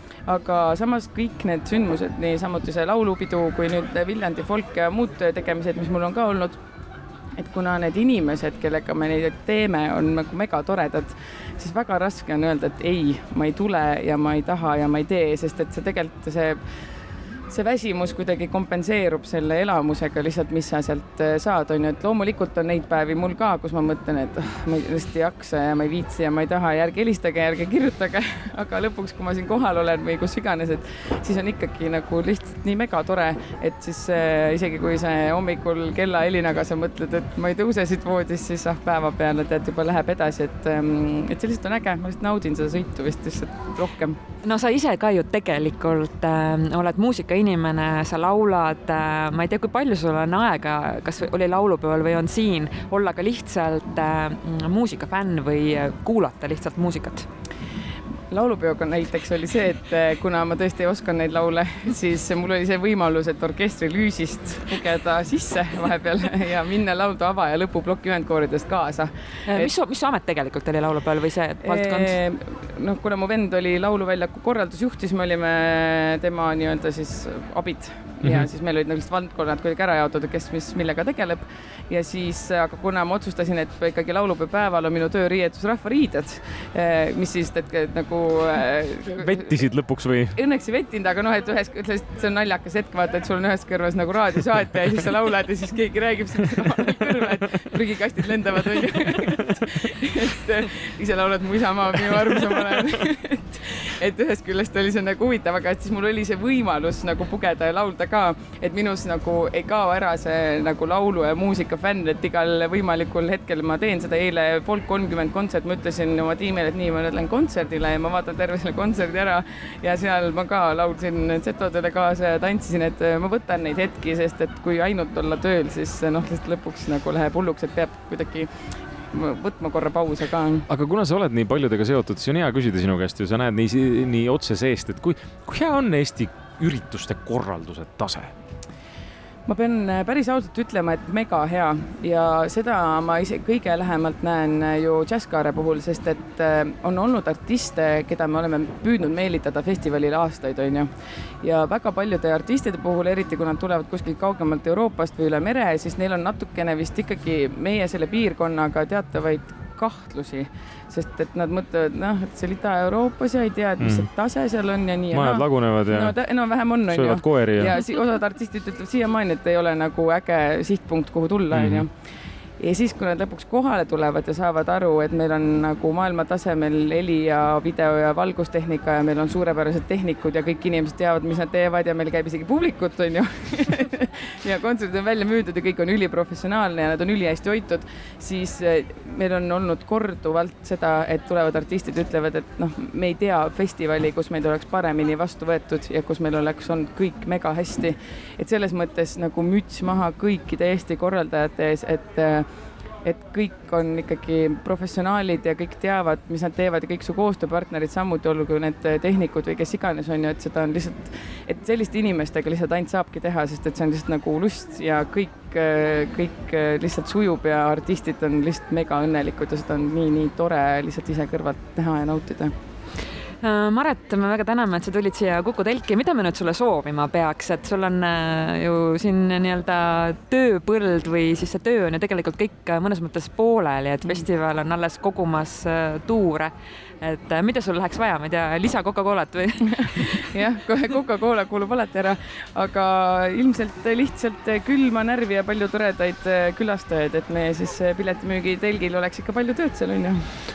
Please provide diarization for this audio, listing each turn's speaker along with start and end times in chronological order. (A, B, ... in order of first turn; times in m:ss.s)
0:00.2-0:06.6 A
0:07.4-0:16.6 A
0:17.5-0:44.2 A
0:44.4-0:57.3 B
0:58.3-1:09.7 A
1:09.4-1:12.2 B
1:11.6-1:29.6 A
1:29.1-1:30.4 C
1:30.3-2:08.5 A
2:09.1-2:10.7 A
2:10.7-2:18.3 C
2:19.5-2:30.9 A
2:31.4-2:52.0 A
2:43.8-2:44.1 C
2:45.1-2:47.7 C
2:51.5-2:51.8 C
2:52.6-3:22.5 A
3:23.0-3:42.5 A
3:43.4-4:00.3 B
3:59.9-4:10.3 A